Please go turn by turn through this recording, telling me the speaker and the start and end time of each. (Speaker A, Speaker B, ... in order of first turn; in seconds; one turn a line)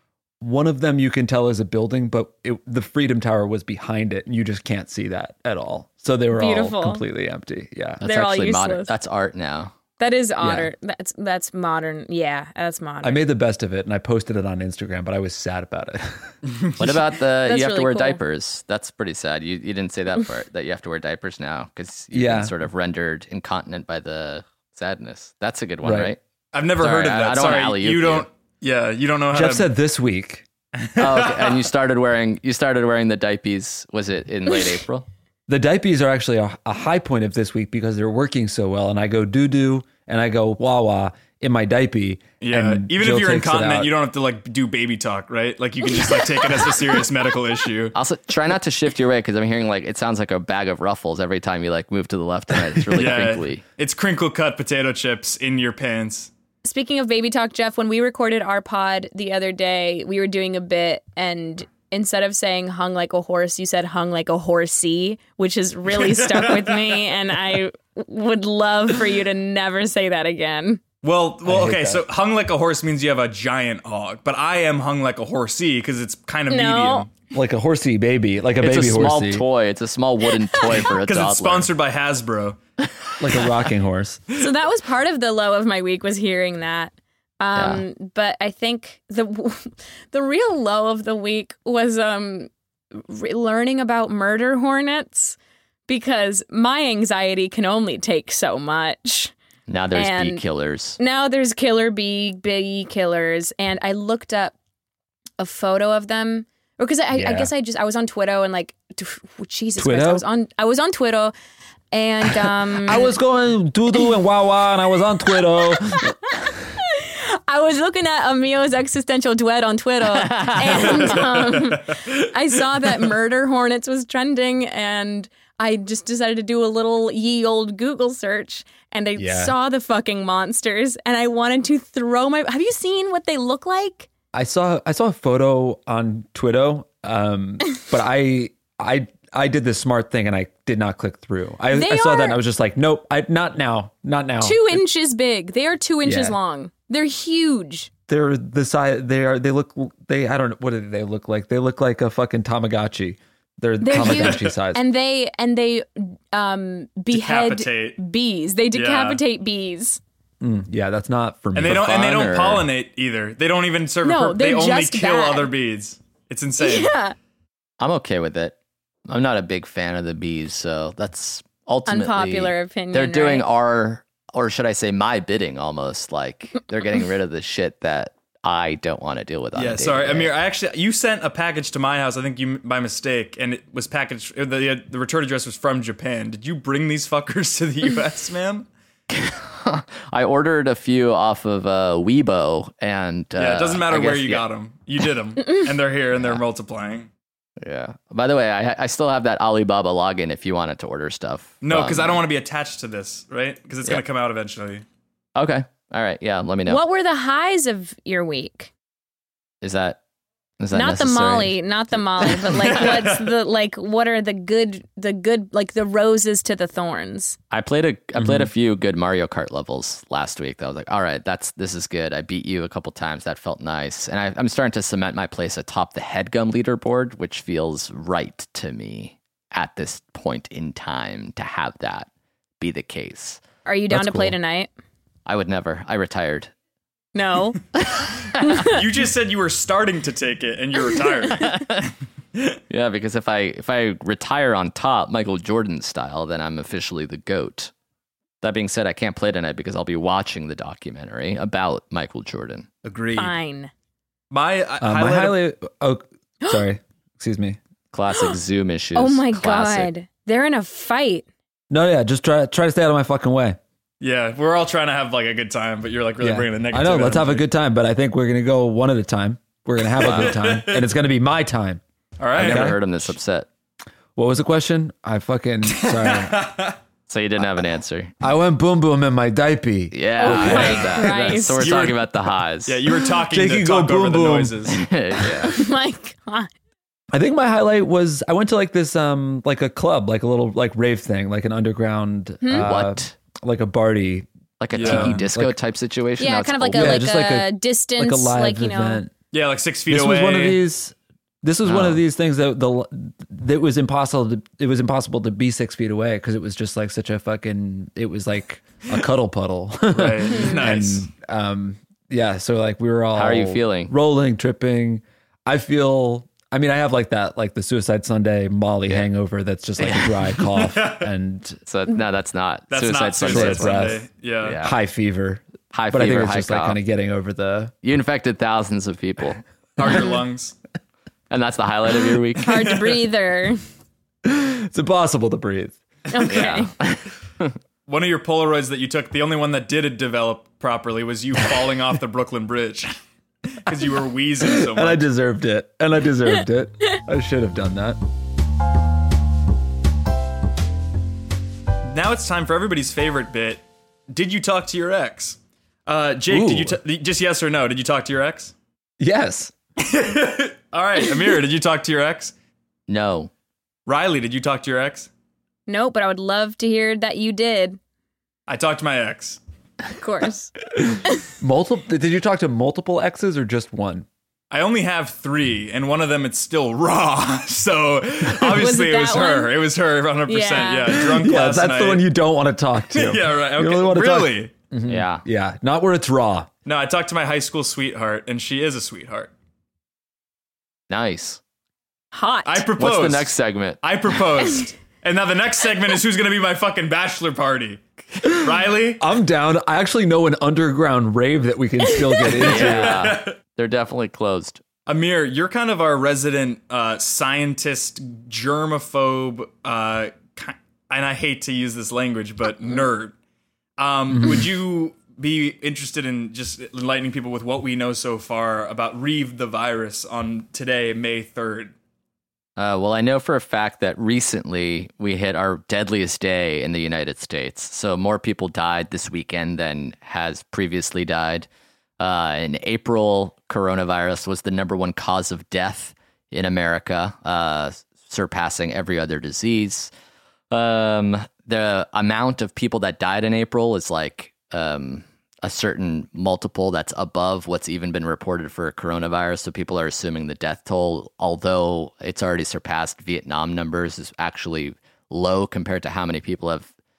Speaker A: 0.4-8.0
Speaker B: 6.3-7.0
Speaker C: 8.0-9.8
Speaker B: 8.0-8.9
Speaker B: 10.0-13.2
Speaker A: 10.4-10.7
Speaker A: 13.0-16.3
Speaker C: 16.8-26.2
Speaker B: 17.4-18.2
Speaker A: 22.1-22.5
Speaker A: 25.8-26.1
Speaker D: 26.5-29.7
Speaker C: 26.8-28.3
Speaker A: 29.3-30.5
Speaker D: 30.8-31.6
Speaker C: 31.0-35.1
Speaker A: 35.5-43.9
Speaker D: 42.4-48.0
Speaker C: 47.9-53.6
Speaker D: 52.9-56.3
Speaker B: 56.6-70.8
Speaker D: 66.0-67.0
Speaker D: 71.0-77.1
Speaker A: 71.5-72.0
Speaker B: 76.5-77.1
Speaker A: 77.3-79.5
Speaker C: 78.6-81.7
Speaker D: 80.8-82.6
Speaker A: 83.2-84.2
Speaker B: 84.4-95.4
Speaker C: 87.5-87.8
Speaker B: 95.9-99.3
Speaker C: 99.7-101.0
Speaker B: 99.9-100.4
Speaker B: 101.0-104.5
Speaker B: 105.4-111.3
Speaker A: 107.1-107.5
Speaker A: 109.8-110.2
Speaker B: 111.9-113.1
Speaker A: 112.7-116.4
Speaker B: 115.6-134.1
Speaker C: 120.1-121.2
Speaker D: 121.1-121.8
Speaker A: 129.2-129.5
Speaker A: 134.3-144.8
Speaker B: 141.7-142.4
Speaker B: 144.4-147.9
Speaker A: 146.0-146.4
Speaker A: 148.1-154.8
Speaker B: 153.8-160.0
Speaker D: 153.9-154.5
Speaker D: 157.1-158.0
Speaker D: 158.7-159.2
Speaker A: 160.4-162.1
Speaker D: 161.6-166.9
Speaker C: 161.6-162.7
Speaker B: 164.0-165.5
Speaker B: 166.6-167.2
Speaker C: 167.8-168.6
Speaker C: 169.1-180.3
Speaker B: 171.9-173.5
Speaker D: 179.5-188.7
Speaker C: 189.1-194.4
Speaker D: 193.4-197.1
Speaker C: 196.2-196.4
Speaker C: 197.6-202.2
Speaker D: 201.6-204.8
Speaker C: 205.4-206.8
Speaker B: 206.7-208.7
Speaker C: 209.6-210.0
Speaker C: 210.6-211.6
Speaker B: 210.7-217.4
Speaker D: 212.7-213.2
Speaker C: 217.5-232.1
Speaker A: 218.2-218.5
Speaker C: 232.6-233.4
Speaker B: 233.7-234.7
Speaker A: 233.9-234.4
Speaker C: 235.3-236.5
Speaker B: 237.1-237.6
Speaker B: 238.4-238.8
Speaker D: 238.6-241.7
Speaker C: 241.3-241.8
Speaker C: 242.7-247.7
Speaker C: 248.4-252.7
Speaker D: 252.8-253.3
Speaker B: 253.2-253.7
Speaker D: 254.3-255.4
Speaker A: 254.8-257.6
Speaker C: 257.9-259.9
Speaker B: 258.9-261.3
Speaker A: 261.7-263.6
Speaker D: 264.0-267.4
Speaker A: 266.2-271.8
Speaker D: 270.0-270.9
Speaker C: 270.0-270.4
Speaker D: 272.2-272.8
Speaker A: 272.3-272.8
Speaker C: 272.4-273.5
Speaker A: 274.2-276.5
Speaker D: 275.7-276.8
Speaker C: 277.1-278.1
Speaker A: 278.2-280.9
Speaker C: 279.9-282.8
Speaker B: 280.2-281.7
Speaker D: 280.4-282.1
Speaker D: 282.6-284.8
Speaker A: 283.2-285.2
Speaker C: 284.7-285.6
Speaker B: 285.4-286.5
Speaker A: 287.1-295.6
Speaker B: 292.4-292.7
Speaker C: 292.5-293.1
Speaker C: 294.6-297.1
Speaker D: 294.7-295.2
Speaker B: 296.2-299.0
Speaker A: 296.7-299.1
Speaker D: 299.3-300.6
Speaker A: 299.9-321.6
Speaker C: 301.6-302.0
Speaker D: 309.9-311.1
Speaker C: 313.1-313.9
Speaker C: 319.8-320.1
Speaker D: 320.6-321.0
Speaker C: 321.7-324.8
Speaker D: 322.7-324.6
Speaker A: 323.2-324.1
Speaker A: 324.6-327.7
Speaker C: 325.7-326.8
Speaker C: 327.8-329.4
Speaker D: 329.8-330.6
Speaker C: 331.3-332.8
Speaker B: 332.4-333.6
Speaker A: 334.2-335.8
Speaker B: 336.1-336.7
Speaker C: 336.3-337.6
Speaker D: 337.9-342.9
Speaker D: 343.6-345.1
Speaker A: 344.4-348.0
Speaker D: 351.9-358.5
Speaker A: 356.3-356.8
Speaker A: 359.0-359.5
Speaker D: 359.8-362.3
Speaker C: 362.9-363.3
Speaker D: 363.9-365.1
Speaker B: 365.7-367.8
Speaker D: 368.5-369.4
Speaker B: 370.0-370.5
Speaker A: 371.4-374.1
Speaker D: 374.5-382.1
Speaker B: 378.5-379.5
Speaker B: 380.3-381.0
Speaker A: 380.9-386.5
Speaker D: 382.9-384.5
Speaker C: 384.9-385.2
Speaker D: 386.7-389.3
Speaker C: 390.9-391.4
Speaker B: 392.1-392.7
Speaker D: 392.5-399.0
Speaker C: 392.8-393.8
Speaker A: 399.0-403.2
Speaker D: 402.3-403.4
Speaker C: 402.4-404.6
Speaker D: 404.9-413.1
Speaker D: 413.8-421.7
Speaker A: 414.2-414.4
Speaker C: 422.6-431.5
Speaker C: 432.0-439.9
Speaker C: 440.5-456.7